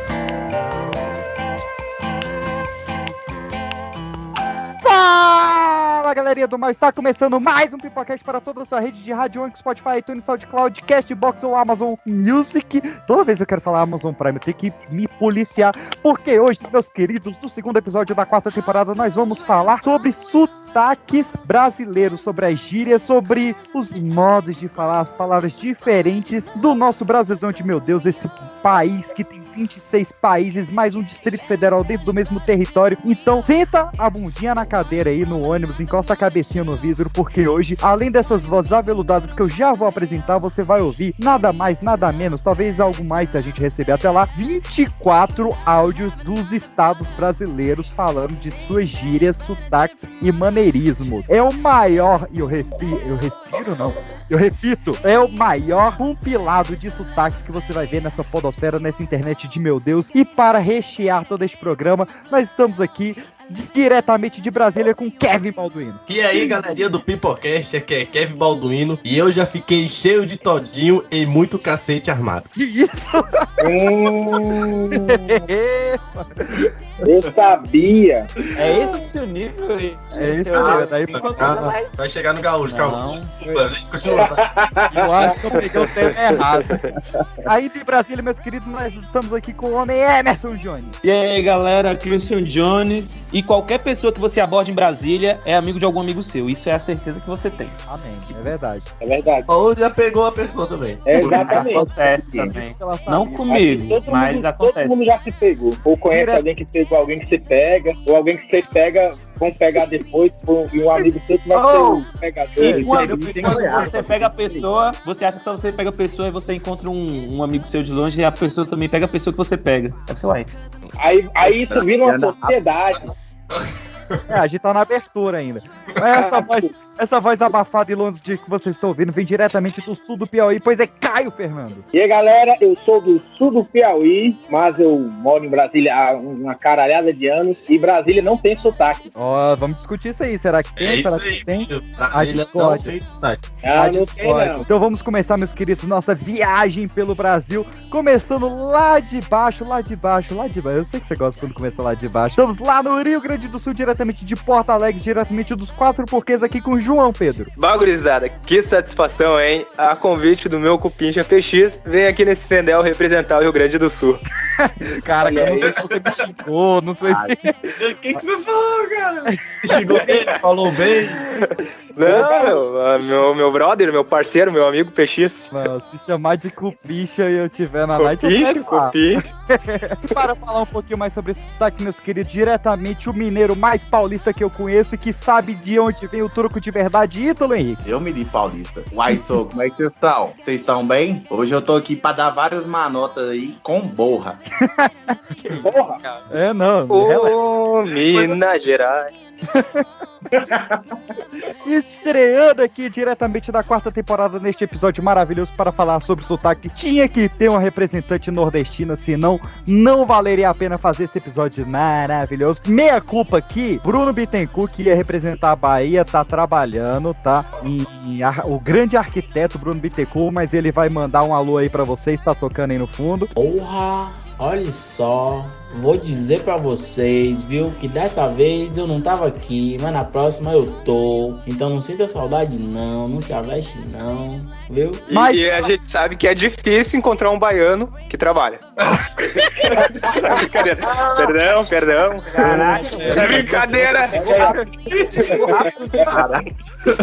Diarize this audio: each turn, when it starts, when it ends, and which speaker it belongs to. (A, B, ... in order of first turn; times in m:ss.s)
0:04.8-1:06.0 A
1:06.1-1:12.5 B
1:12.6-1:13.5 A
1:13.6-1:15.4 C
1:14.9-1:16.5 A
1:17.0-1:18.3 C
1:18.6-1:22.0 D
1:20.2-1:21.6 A
1:20.5-1:24.5 B
1:22.7-1:23.3 D
1:24.1-1:25.3 C
1:24.9-1:26.8 A
1:27.5-1:30.9 A
1:31.0-1:37.8 D
1:37.9-1:38.9 A
1:39.0-1:39.5 C
1:39.5-1:41.3 B
1:41.1-1:41.8 C
1:41.2-1:45.0 D
1:41.3-1:42.5 E
1:42.7-1:43.5 A
1:43.5-1:53.0 C
1:46.1-1:46.4 A
1:51.5-1:52.1 D
1:52.6-2:00.5 D
1:52.8-1:54.7 E
1:53.3-1:53.9 A
2:01.0-2:03.1 C
2:01.4-2:02.6 E
2:03.0-2:04.2 B
2:04.3-2:11.8 A
2:06.3-2:06.7 C
2:11.9-2:19.1 C
2:19.2-2:22.9 A
2:20.8-2:23.5 B
2:23.6-2:24.6 C
2:23.8-2:37.5 A
2:37.6-2:44.2 F
2:44.6-2:47.5 A
2:47.1-2:47.3 E
2:47.8-2:51.2 B
2:52.0-2:55.5 F
2:52.1-2:52.4 C
2:55.5-3:07.8 A
2:58.0-2:59.2 F
3:07.8-3:14.4 E
3:14.6-3:15.6 A
3:15.7-3:16.0 C
3:16.3-3:17.4 A
3:16.9-3:19.3 F
3:19.6-3:19.8 A
3:20.4-3:20.8 E
3:21.6-3:43.3 A
3:43.3-3:55.1 G
3:55.1-3:58.6 F
3:55.1-3:55.7 A
4:00.2-4:02.5 F
4:02.4-4:05.4 B
4:02.4-4:03.8 D
4:02.9-4:03.4 A
4:03.4-4:04.6 E
4:04.3-4:04.7 A
4:05.4-4:06.2 A
4:05.6-4:06.0 C
4:06.1-4:06.4 E